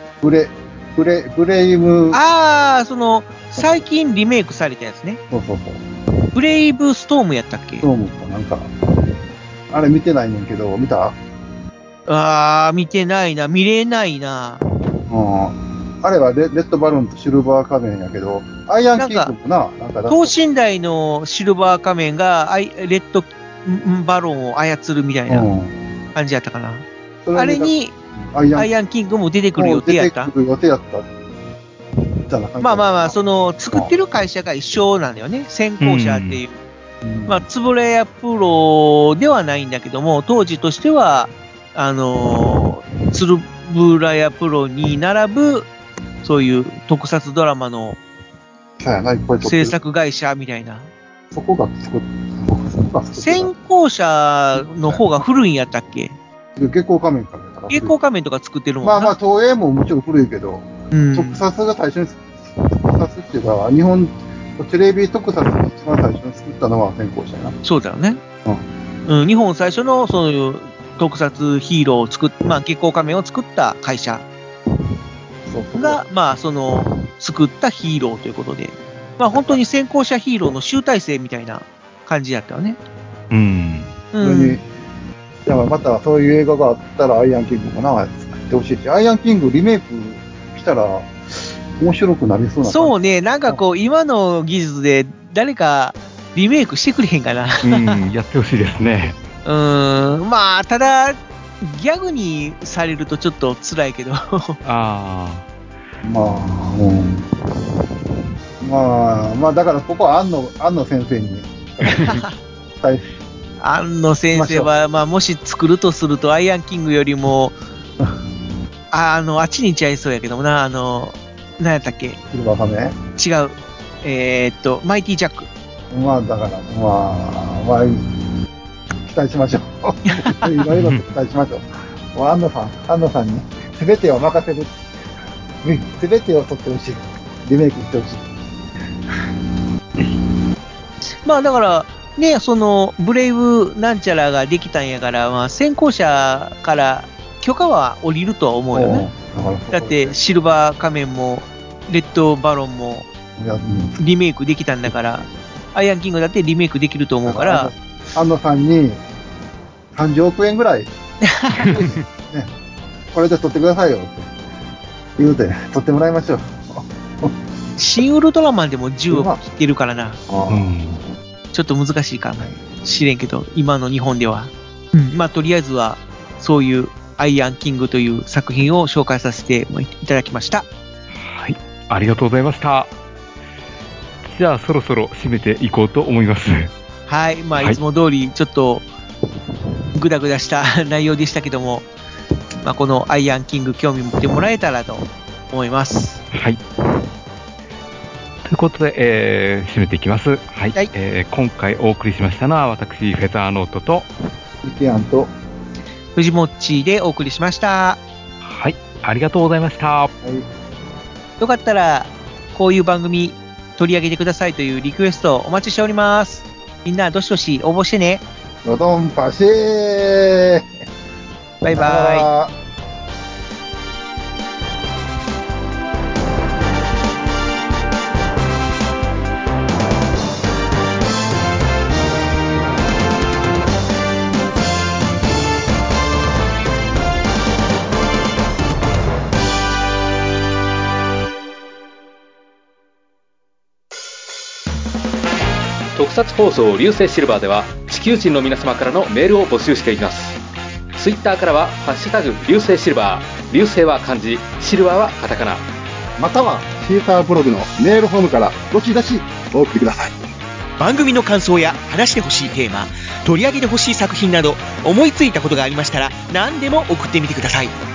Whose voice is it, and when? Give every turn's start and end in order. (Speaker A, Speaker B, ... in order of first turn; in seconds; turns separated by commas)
Speaker A: 0.2-2.2, Speaker B: 2.1-5.2, Speaker A: 3.5-3.8, Speaker A: 5.3-5.8, Speaker B: 6.3-7.9, Speaker A: 7.8-8.7, Speaker A: 9.7-11.2, Speaker B: 12.1-14.6, Speaker A: 15.1-20.4, Speaker B: 19.0-19.3, Speaker B: 20.1-25.5, Speaker A: 25.3-25.8, Speaker B: 26.1-27.9, Speaker A: 27.2-28.7, Speaker B: 28.6-30.3, Speaker A: 29.6-31.1, Speaker A: 32.3-34.0, Speaker B: 32.6-36.6, Speaker C: 35.8-36.4, Speaker A: 37.0-37.5, Speaker B: 37.3-45.7, Speaker B: 46.2-48.0, Speaker A: 48.8-49.8, Speaker B: 49.4-50.9, Speaker A: 51.3-53.5, Speaker B: 53.2-56.2, Speaker A: 54.5-55.0, Speaker A: 56.6-58.0, Speaker B: 57.7-59.1, Speaker A: 58.8-67.6, Speaker B: 60.9-61.4, Speaker B: 67.6-68.2, Speaker B: 69.1-74.2, Speaker A: 75.5-76.0, Speaker B: 75.8-82.8, Speaker A: 79.3-79.6, Speaker C: 83.3-83.9, Speaker B: 84.1-84.6, Speaker A: 84.2-84.6, Speaker A: 85.5-91.1, Speaker A: 91.8-93.0, Speaker B: 92.7-98.0, Speaker C: 97.6-99.2, Speaker B: 99.5-104.6, Speaker C: 104.6-105.5, Speaker A: 106.0-107.3, Speaker A: 108.6-112.2, Speaker C: 111.8-112.2, Speaker B: 111.9-112.3, Speaker A: 112.8-113.0, Speaker B: 113.6-117.6, Speaker A: 114.3-114.7, Speaker B: 118.9-122.2, Speaker A: 122.3-123.0, Speaker B: 123.2-125.5, Speaker A: 125.9-128.1, Speaker A: 129.0-134.7, Speaker B: 130.1-130.6, Speaker C: 130.7-131.0, Speaker A: 135.6-138.3, Speaker B: 141.2-149.1, Speaker A: 148.7-150.2, Speaker B: 149.7-153.1, Speaker A: 153.4-154.0, Speaker B: 154.0-157.7, Speaker A: 157.2-159.0, Speaker A: 159.9-160.9, Speaker B: 161.2-161.6, Speaker A: 161.5-162.5, Speaker C: 161.6-162.0, Speaker A: 163.1-164.3, Speaker A: 165.2-167.4, Speaker B: 167.8-170.2, Speaker A: 169.1-169.4, Speaker A: 170.3-170.8, Speaker C: 170.5-171.0, Speaker B: 171.5-180.7, Speaker C: 181.1-182.9, Speaker C: 184.2-186.7, Speaker B: 187.1-188.8, Speaker B: 190.0-191.9, Speaker B: 192.6-196.2, Speaker C: 196.3-196.6, Speaker C: 198.4-204.1, Speaker A: 204.6-205.3, Speaker B: 206.2-208.0, Speaker C: 208.4-210.1, Speaker A: 210.2-210.5, Speaker B: 211.4-218.2, Speaker A: 218.6-220.7, Speaker B: 221.6-222.3, Speaker A: 221.7-222.5, Speaker D: 245.9-250.4, Speaker D: 250.9-255.6, Speaker A: 256.2-260.2, Speaker E: 260.8-267.8